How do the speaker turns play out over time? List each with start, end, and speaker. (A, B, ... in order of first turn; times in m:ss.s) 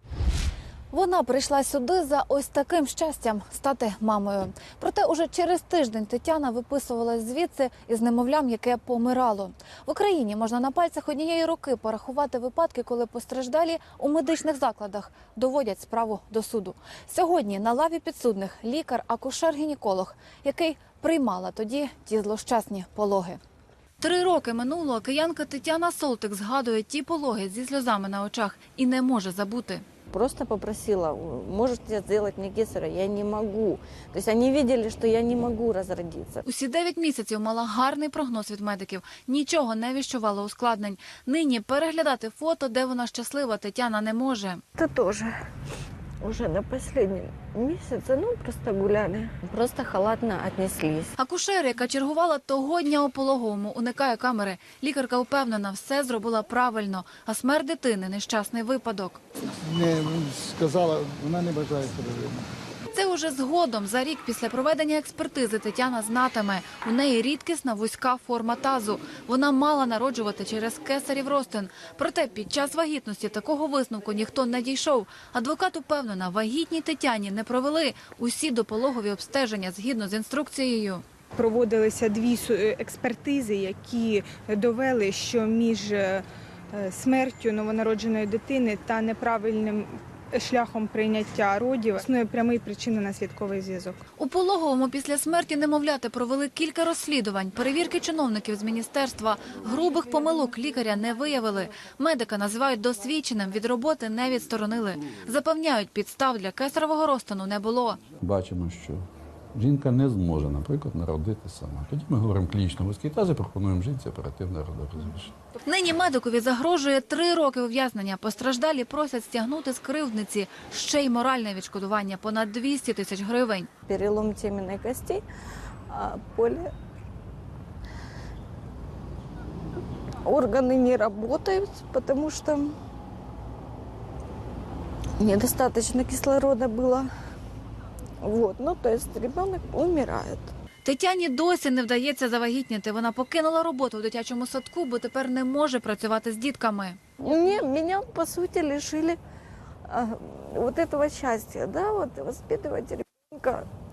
0:00.9-0:23.4 A
0:24.0-0:29.8 A
0:30.1-0:36.4 B
0:36.4-0:44.6 A
0:44.8-0:45.3 B
0:46.2-0:51.1 B
0:51.2-0:59.2 A
0:59.6-1:02.5 C
1:02.9-1:21.0 A
1:21.3-1:34.0 D
1:34.2-1:48.0 A
1:48.2-1:49.0 E
1:49.5-1:55.3 E
1:55.6-2:03.7 A
2:03.9-2:05.2 B
2:05.9-2:06.7 B
2:10.2-2:12.7 B
2:15.2-2:17.1 B
2:18.2-2:20.5 B
2:20.8-2:27.0 A
2:27.2-2:29.2 B
2:29.9-2:33.6 B